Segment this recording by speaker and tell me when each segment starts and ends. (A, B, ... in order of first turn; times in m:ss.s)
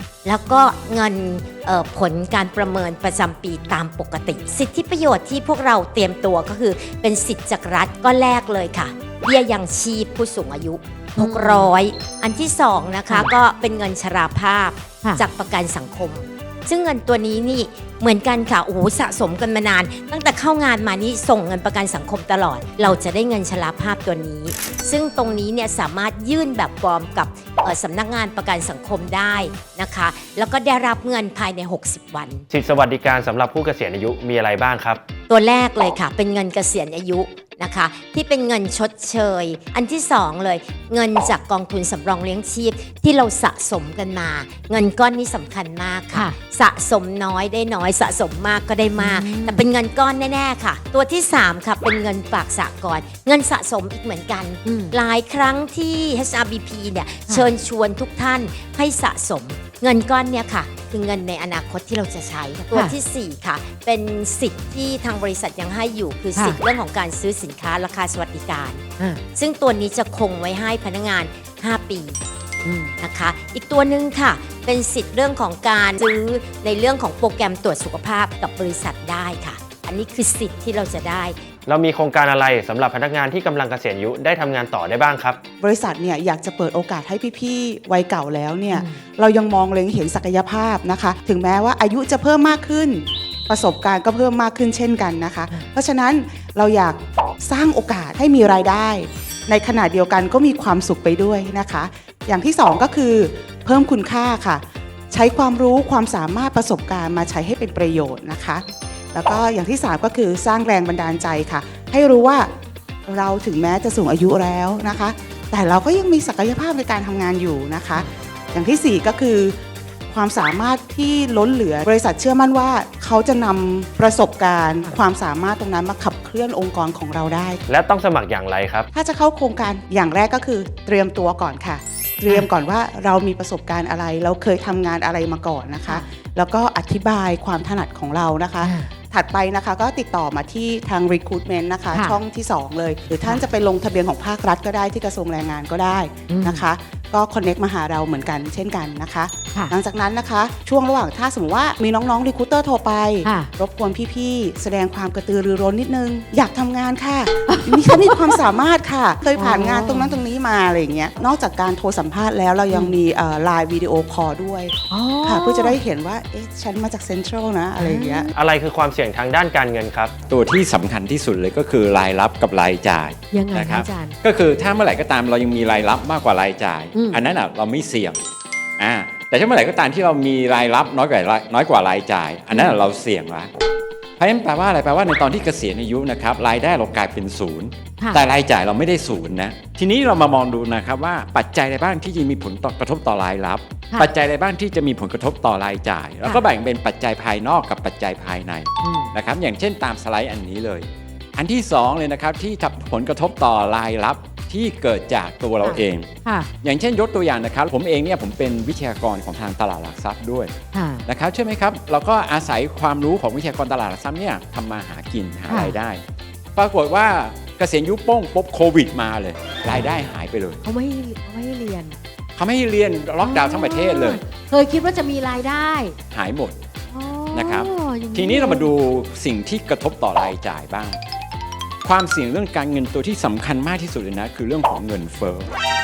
0:00.2-0:32.4 A
0:11.2-0:11.7 B
0:32.5-0:35.0 C
0:35.3-1:12.2 A
0:49.0-0:49.6 B
0:54.6-0:55.0 B
1:12.6-1:12.9 B
1:13.0-1:21.4 A
1:21.7-1:25.4 C
1:25.6-1:52.5 D
1:53.1-1:59.6 D
2:00.1-2:07.6 D
2:07.7-2:08.9 C
2:08.9-2:48.3 D
2:21.9-2:22.2 B
2:26.3-2:26.6 B
2:33.2-2:33.5 B
2:37.5-2:38.4 B
2:39.4-2:40.1 B
2:44.9-2:45.8 B
2:47.8-2:48.3 B
2:48.4-2:50.1 C
2:50.3-2:58.2 E
2:53.3-2:54.2 B
2:56.9-2:57.2 B
2:58.8-3:03.5 E
3:02.5-3:02.8 B
3:04.2-3:30.6 E
3:18.8-3:19.1 B
3:25.6-3:26.5 B
3:30.7-3:31.0 B
3:31.1-3:36.0 E
3:35.5-3:35.8 B
3:36.6-3:40.6 E
3:40.6-3:42.0 B
3:42.4-3:44.2 E
3:43.2-3:46.0 B
3:46.1-3:46.6 E
3:46.9-3:48.7 B
3:47.3-3:51.0 E
3:51.8-3:55.5 E